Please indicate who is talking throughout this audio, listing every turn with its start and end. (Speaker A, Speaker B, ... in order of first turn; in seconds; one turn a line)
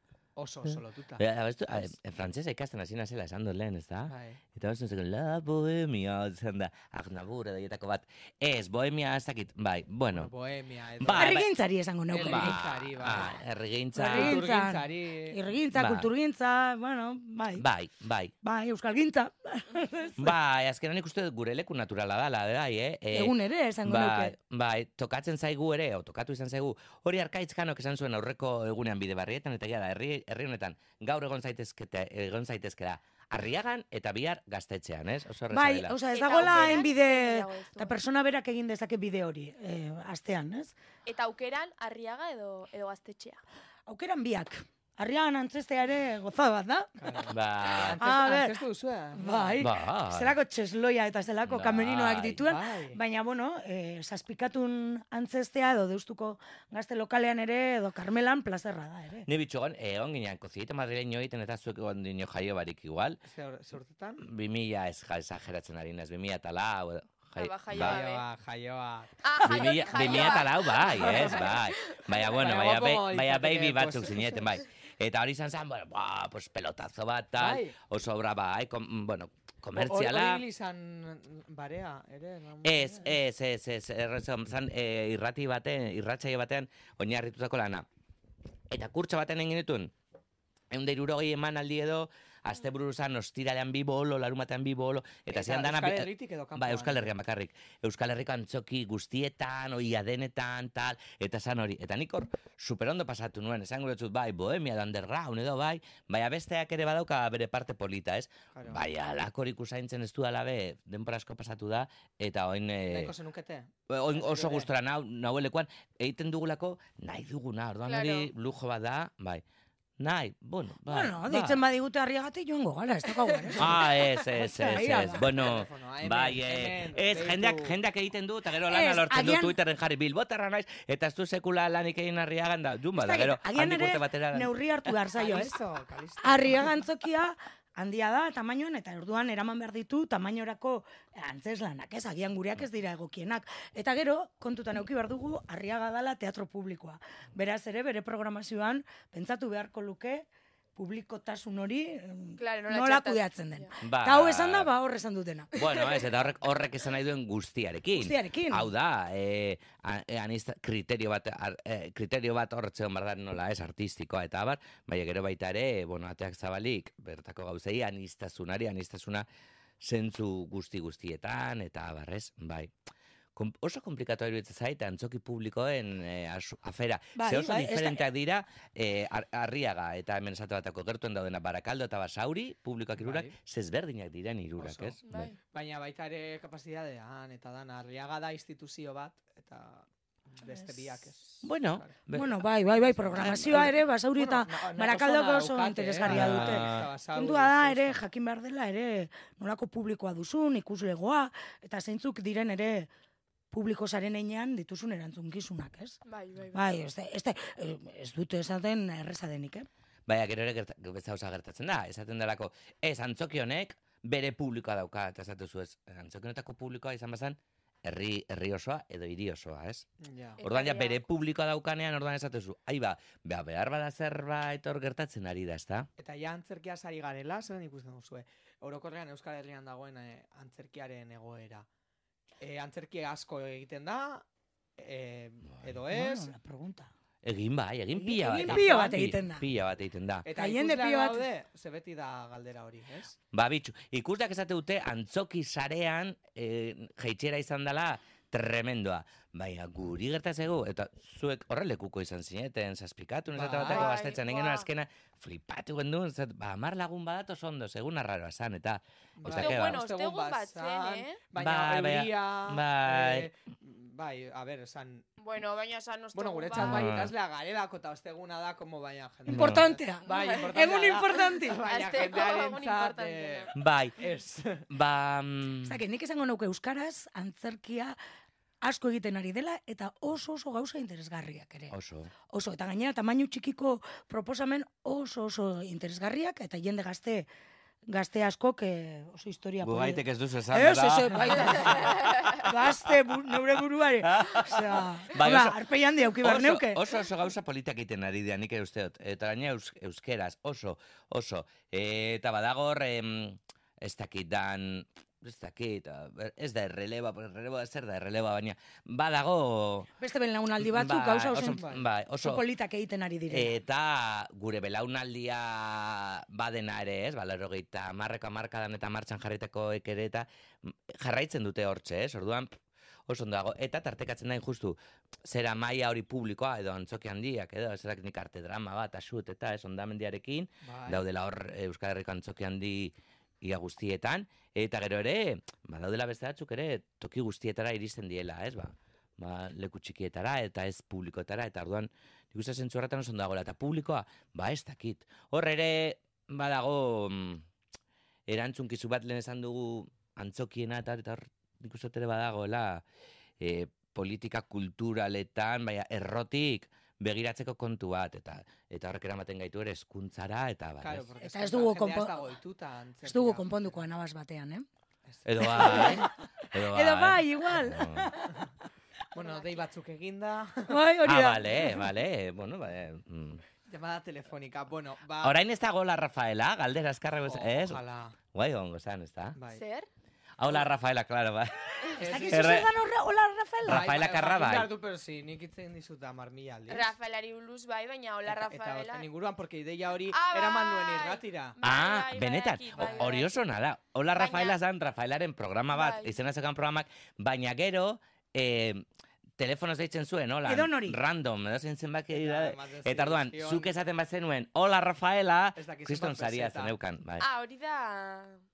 Speaker A: 0.3-1.2
Speaker B: 1.2-10.3
Speaker A: 4.1-4.4
Speaker A: 10.1-11.4
Speaker B: 11.0-11.5
Speaker C: 11.2-12.6
Speaker A: 12.1-13.4
Speaker B: 12.2-14.4
Speaker C: 13.9-17.6
Speaker A: 14.0-15.4
Speaker B: 15.7-16.1
Speaker B: 17.6-18.3
Speaker C: 18.4-20.3
Speaker B: 20.2-36.0
Speaker C: 23.1-24.3
Speaker C: 35.5-40.7
Speaker D: 36.1-37.9
Speaker A: 36.4-36.8
Speaker D: 41.0-43.4
Speaker C: 43.9-46.9
Speaker A: 47.0-49.6
Speaker B: 47.3-48.0
Speaker C: 48.0-48.6
Speaker C: 49.1-59.3
Speaker B: 49.6-50.4
Speaker B: 51.5-52.4
Speaker A: 52.4-53.0
Speaker B: 59.2-63.2
Speaker A: 63.2-64.2
Speaker B: 64.2-68.0
Speaker D: 67.3-68.2
Speaker A: 67.7-71.5
Speaker D: 69.2-72.2
Speaker B: 69.4-80.4
Speaker A: 72.3-74.5
Speaker A: 77.4-77.7
Speaker A: 79.7-83.1
Speaker B: 82.6-87.8
Speaker B: 88.7-89.9
Speaker B: 90.7-113.1
Speaker A: 95.3-97.1
Speaker A: 108.5-108.8
Speaker A: 112.9-114.7
Speaker B: 113.9-119.4
Speaker D: 117.8-118.3
Speaker B: 120.0-121.6
Speaker C: 120.9-125.3
Speaker B: 123.6-134.9
Speaker A: 125.2-127.7
Speaker C: 128.7-129.5
Speaker C: 132.9-135.6
Speaker A: 135.2-136.7
Speaker C: 136.2-155.5
Speaker D: 152.4-153.7
Speaker B: 153.8-154.7
Speaker B: 155.5-169.3
Speaker C: 157.9-158.7
Speaker B: 169.8-172.7
Speaker B: 173.3-185.3
Speaker C: 177.2-178.0
Speaker A: 183.0-183.3
Speaker A: 184.6-191.9
Speaker D: 185.1-185.4
Speaker B: 191.4-192.4
Speaker C: 192.1-202.9
Speaker A: 193.1-198.0
Speaker B: 193.1-193.7
Speaker B: 196.0-196.9
Speaker C: 203.5-206.0
Speaker D: 206.1-206.6
Speaker C: 206.5-209.7
Speaker B: 210.1-219.9
Speaker A: 220.0-220.4
Speaker D: 220.4-221.0
Speaker B: 220.4-225.9
Speaker A: 226.0-231.7
Speaker A: 232.4-234.2
Speaker A: 234.8-236.3
Speaker C: 235.9-236.9
Speaker B: 237.2-240.3
Speaker C: 237.9-239.4
Speaker A: 238.4-238.9
Speaker A: 240.2-243.2
Speaker C: 240.3-241.2
Speaker B: 243.3-259.8
Speaker A: 253.3-253.9
Speaker D: 253.7-254.7
Speaker A: 259.2-265.1
Speaker D: 259.2-261.2
Speaker B: 261.4-263.3
Speaker D: 265.2-266.9
Speaker A: 266.1-274.6
Speaker B: 266.6-267.1
Speaker B: 269.3-269.7
Speaker C: 269.3-271.6
Speaker D: 270.1-270.5
Speaker D: 271.6-273.5
Speaker B: 273.5-273.9
Speaker B: 274.7-275.8
Speaker C: 275.6-277.9
Speaker C: 278.6-281.7
Speaker B: 281.7-282.1
Speaker C: 282.3-287.3
Speaker C: 287.9-296.8
Speaker B: 289.6-292.3
Speaker B: 294.0-295.6
Speaker B: 296.2-309.9
Speaker C: 310.0-311.6
Speaker B: 310.6-312.4
Speaker A: 311.4-311.8
Speaker C: 312.2-313.6
Speaker B: 313.3-322.5
Speaker B: 323.1-347.4
Speaker A: 330.6-331.0
Speaker B: 348.3-352.8
Speaker B: 353.4-361.1
Speaker A: 360.8-363.7
Speaker C: 361.2-362.2
Speaker C: 363.0-364.6
Speaker A: 365.1-366.0
Speaker B: 365.2-368.1
Speaker C: 365.4-366.1
Speaker C: 366.6-368.3
Speaker A: 369.1-370.8
Speaker D: 369.2-369.6
Speaker C: 370.7-371.8
Speaker B: 371.0-373.4
Speaker A: 373.7-375.4
Speaker B: 375.2-377.8
Speaker A: 377.2-378.1
Speaker B: 378.3-379.4
Speaker A: 379.4-379.6
Speaker D: 379.5-379.9
Speaker B: 380.4-382.7
Speaker A: 382.0-382.7
Speaker C: 382.0-383.9
Speaker B: 383.6-384.7
Speaker A: 383.6-386.9
Speaker D: 386.7-389.1
Speaker A: 388.2-391.5
Speaker D: 390.1-393.3
Speaker B: 391.6-398.8
Speaker A: 392.8-393.2
Speaker D: 394.1-394.6
Speaker D: 395.7-396.1
Speaker B: 399.4-407.2
Speaker C: 400.4-401.0
Speaker A: 402.1-403.7
Speaker A: 405.6-406.7
Speaker D: 407.2-408.4